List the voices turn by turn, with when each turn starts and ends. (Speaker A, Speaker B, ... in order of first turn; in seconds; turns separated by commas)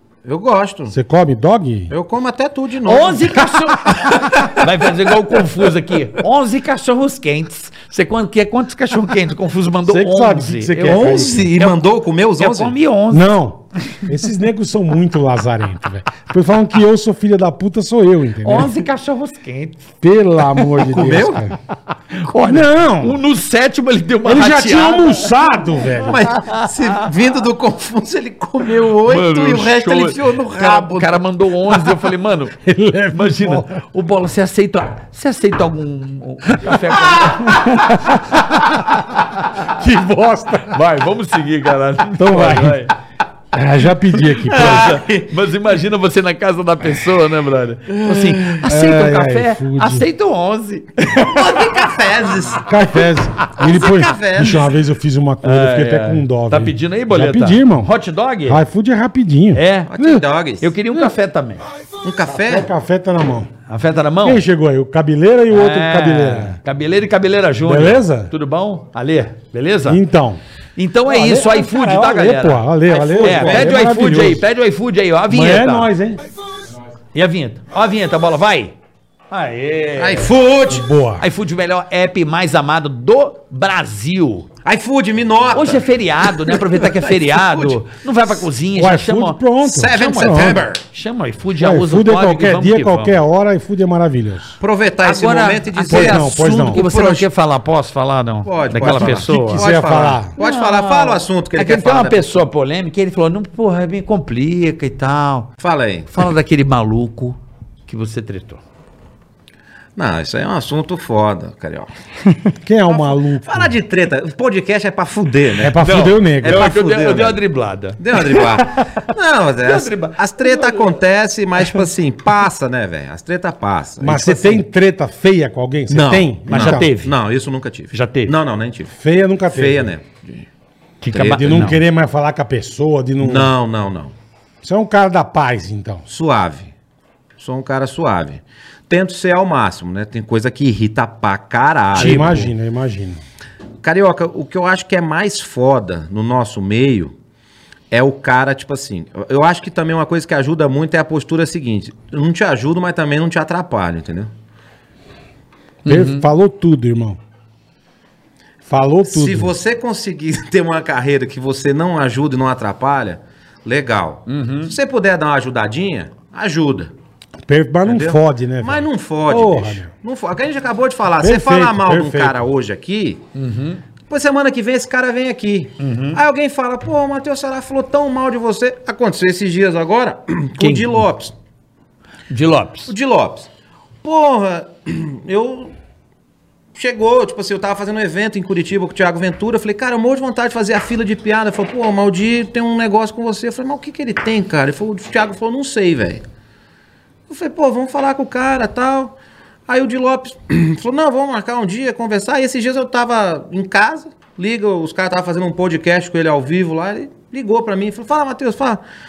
Speaker A: 0.2-0.9, Speaker B: 0.9-1.9, Speaker A: 1.9-4.7, Speaker C: 2.8-11.8, Speaker B: 4.0-4.3, Speaker B: 9.9-11.4, Speaker A: 10.8-12.7, Speaker C: 12.4-13.3, Speaker B: 13.1-18.7, Speaker C: 18.4-19.9, Speaker B: 20.0-21.6, Speaker C: 20.5-21.0, Speaker A: 20.9-21.4, Speaker C: 22.1-25.3, Speaker B: 22.4-23.2, Speaker B: 24.2-26.2, Speaker A: 26.0-31.2, Speaker C: 26.3-26.7, Speaker C: 29.0-32.6, Speaker B: 32.6-33.7, Speaker C: 33.1-39.7, Speaker B: 37.4-39.0, Speaker B: 39.6-40.8, Speaker C: 40.7-42.9, Speaker B: 42.2-42.8, Speaker B: 43.5-44.9, Speaker C: 44.4-51.7, Speaker A: 44.5-45.3, Speaker A: 47.9-48.6, Speaker B: 48.6-50.0, Speaker A: 51.1-54.7, Speaker B: 52.6-57.9, Speaker C: 55.4-58.6, Speaker B: 58.5-59.6, Speaker C: 59.5-61.6, Speaker A: 59.9-60.7, Speaker A: 62.0-62.7, Speaker B: 62.4-63.5, Speaker C: 63.7-64.4, Speaker B: 64.2-66.6, Speaker C: 65.5-70.0, Speaker B: 67.6-68.3, Speaker B: 69.9-70.4, Speaker C: 70.8-75.9, Speaker B: 71.0-74.4, Speaker A: 72.9-73.8, Speaker B: 75.3-76.2, Speaker C: 77.1-78.7, Speaker C: 79.3-80.3, Speaker A: 80.0-80.9, Speaker B: 80.7-81.2, Speaker C: 81.2-84.5, Speaker A: 84.6-87.8, Speaker C: 85.5-89.4, Speaker B: 88.7-90.6, Speaker A: 89.6-90.8, Speaker C: 90.9-93.2, Speaker B: 91.6-94.6, Speaker A: 94.6-97.3, Speaker C: 95.0-99.6, Speaker B: 95.9-96.8, Speaker A: 98.4-102.4, Speaker B: 98.8-100.3, Speaker C: 100.4-105.5, Speaker A: 105.6-106.1, Speaker C: 106.1-108.6, Speaker A: 110.0-111.9, Speaker B: 112.6-113.7, Speaker A: 112.9-117.4, Speaker B: 115.6-116.8, Speaker C: 115.8-119.1, Speaker A: 118.0-124.6, Speaker C: 119.6-121.0, Speaker C: 121.6-121.8, Speaker B: 124.0-126.9, Speaker A: 125.9-128.9, Speaker C: 126.5-127.1, Speaker C: 127.9-128.3, Speaker B: 129.0-129.9, Speaker A: 129.5-130.4, Speaker C: 131.0-131.8, Speaker A: 131.1-131.7, Speaker B: 131.2-133.5, Speaker A: 133.2-134.1, Speaker B: 134.6-136.0, Speaker A: 136.1-136.7, Speaker A: 137.4-142.4, Speaker B: 141.9-143.2, Speaker C: 141.9-142.5, Speaker A: 143.8-147.1, Speaker A: 147.9-154.3, Speaker C: 155.9-156.3, Speaker B: 155.9-157.2, Speaker B: 158.7-159.5, Speaker A: 159.1-166.9, Speaker C: 164.3-164.7, Speaker B: 167.5-169.9, Speaker A: 167.8-173.2, Speaker B: 171.2-172.4, Speaker C: 173.3-173.8, Speaker A: 174.1-181.3, Speaker C: 175.8-176.2, Speaker C: 180.6-181.0, Speaker C: 182.3-182.9, Speaker A: 182.9-183.5, Speaker A: 184.0-185.7, Speaker A: 186.7-196.2, Speaker A: 197.3-199.2, Speaker A: 199.7-208.8